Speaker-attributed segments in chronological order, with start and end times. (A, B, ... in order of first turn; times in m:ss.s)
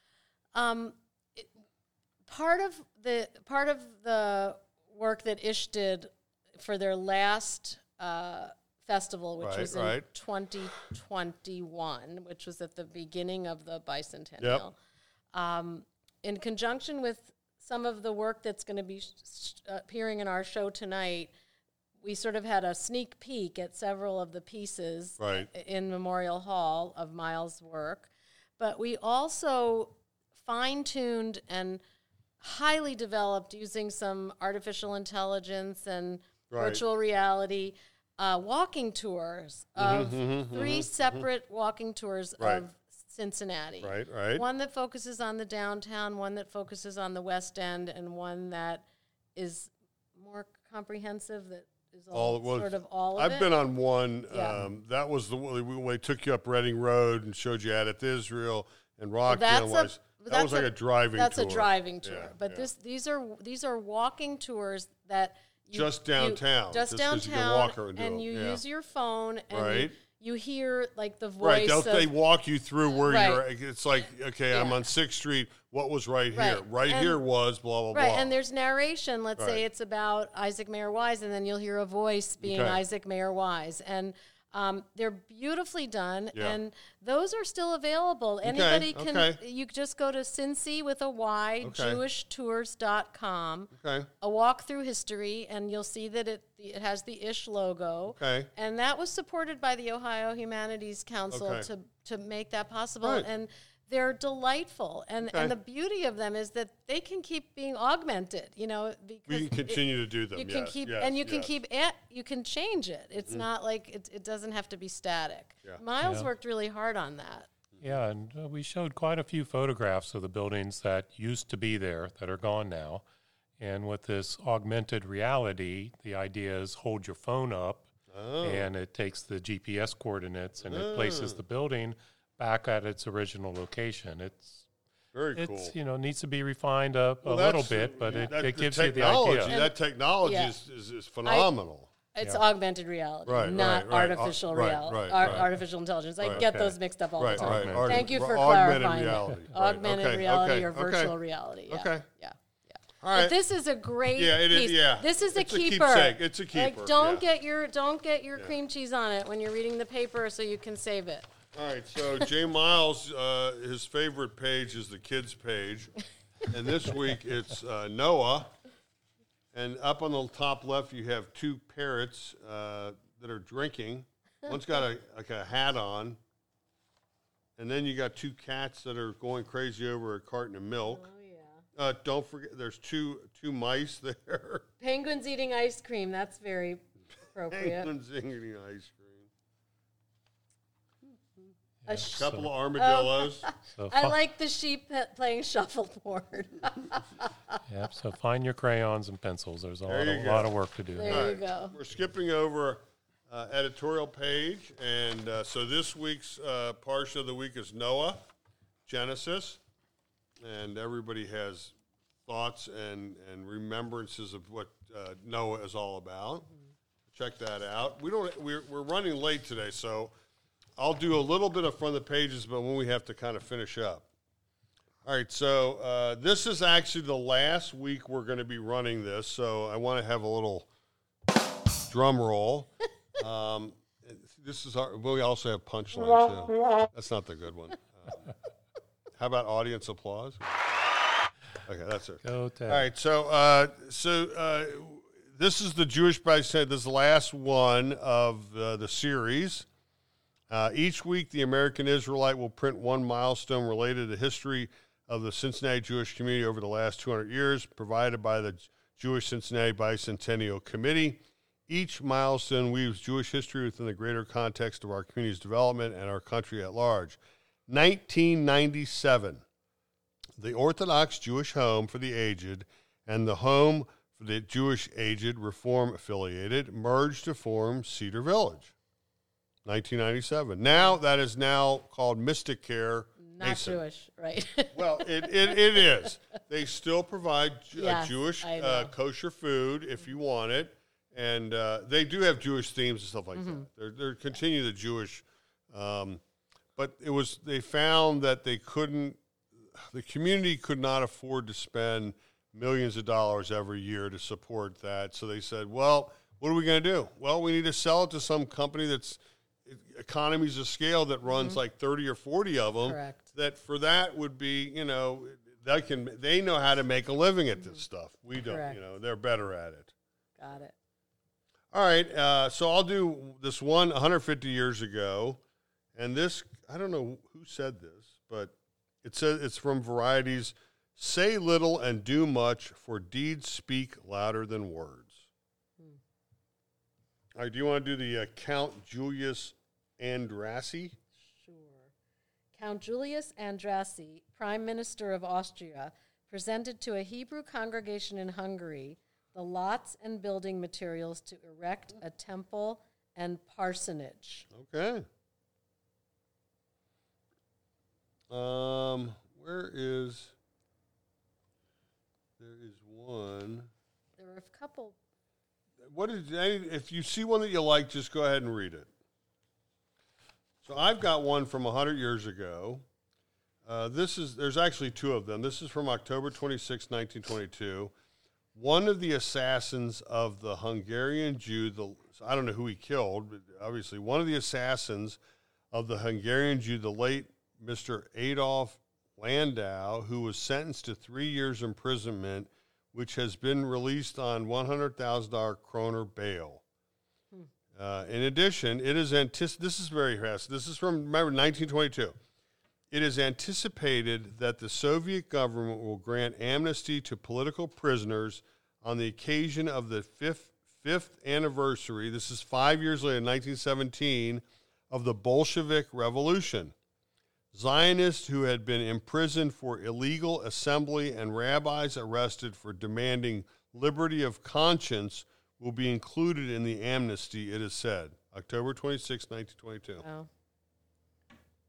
0:00.5-0:01.5 A
0:02.3-0:14.8 A
0:09.4-0:10.0 B
0:15.3-0:21.3 A
0:22.0-0:31.8 A
0:25.2-0:25.5 B
0:32.4-0:53.5 A
0:36.5-0:36.8 B
0:39.8-0:41.2 B
0:42.4-0:42.6 B
0:43.8-0:44.4 B
0:52.1-1:02.7 B
0:54.3-0:54.6 A
0:59.3-1:12.1 A
1:05.7-1:08.6 B
1:09.5-1:09.9 B
1:11.4-1:18.3 B
1:13.0-1:13.4 A
1:14.5-1:14.8 A
1:16.3-1:17.2 A
1:17.9-1:57.5 A
1:19.4-1:19.6 B
1:22.4-1:22.8 B
1:28.4-1:29.4 B
1:31.6-1:32.0 B
1:33.8-1:34.1 B
1:38.2-1:38.5 B
1:41.3-1:41.7 B
1:49.3-1:51.5 B
1:56.0-1:56.3 C
1:57.8-2:03.0 C
2:03.6-2:07.9 C
2:08.1-2:08.7 B
2:08.4-2:14.6 C
2:10.7-2:11.4 B
2:15.1-2:15.7 B
2:15.3-2:19.6 C
2:17.2-2:21.9 B
2:19.5-2:20.5 A
2:21.2-2:21.5 A
2:22.1-2:41.2 A
2:23.2-2:25.5 B
2:26.2-2:28.1 C
2:27.2-2:31.1 B
2:31.7-2:32.0 B
2:33.0-2:33.4 B
2:34.2-2:37.2 B
2:41.5-2:45.9 B
2:46.5-2:48.5 B
2:49.5-2:56.2 B
2:57.6-3:01.1 B
3:00.9-3:01.6 A
3:01.8-3:04.7 B
3:04.8-3:06.8 A
3:07.3-3:07.9 A
3:07.5-3:09.3 B
3:11.8-3:12.5 C
3:11.8-3:17.6 A
3:12.1-3:13.4 B
3:13.7-3:14.2 C
3:17.7-3:21.3 C
3:19.9-3:20.5 B
3:21.0-3:21.8 A
3:21.0-3:28.3 B
3:28.8-3:29.6 B
3:30.4-3:31.7 B
3:32.2-3:36.5 B
3:37.1-3:40.1 B
3:40.8-3:44.1 B
3:45.0-3:50.7 B
3:51.9-3:58.3 B
3:59.2-4:00.7 B
4:01.6-4:09.7 B
4:02.2-4:02.8 C
4:10.5-4:29.4 B
4:30.4-4:38.7 B
4:39.6-4:43.8 B
4:43.2-4:46.0 A
4:44.7-4:56.2 B
4:47.8-4:48.9 A
4:53.3-4:53.6 A
4:56.8-5:19.9 B
5:11.3-5:11.6 A
5:12.8-5:13.3 A
5:18.4-5:18.8 A
5:20.4-5:20.7 A
5:21.7-5:25.4 B
5:25.9-5:35.2 B
5:37.4-5:41.0 B
5:41.3-5:41.9 A
5:42.5-5:54.5 A
5:54.5-5:55.1 B
5:58.3-6:00.3 B
6:02.4-6:03.7 B
6:04.2-6:05.0 A
6:05.8-6:08.9 B
6:10.6-6:12.8 B
6:13.6-6:17.9 B
6:18.5-6:25.2 B
6:25.7-6:36.6 B
6:37.7-6:42.2 B
6:42.9-6:56.7 B
6:57.5-7:10.0 B
7:10.0-7:10.3 A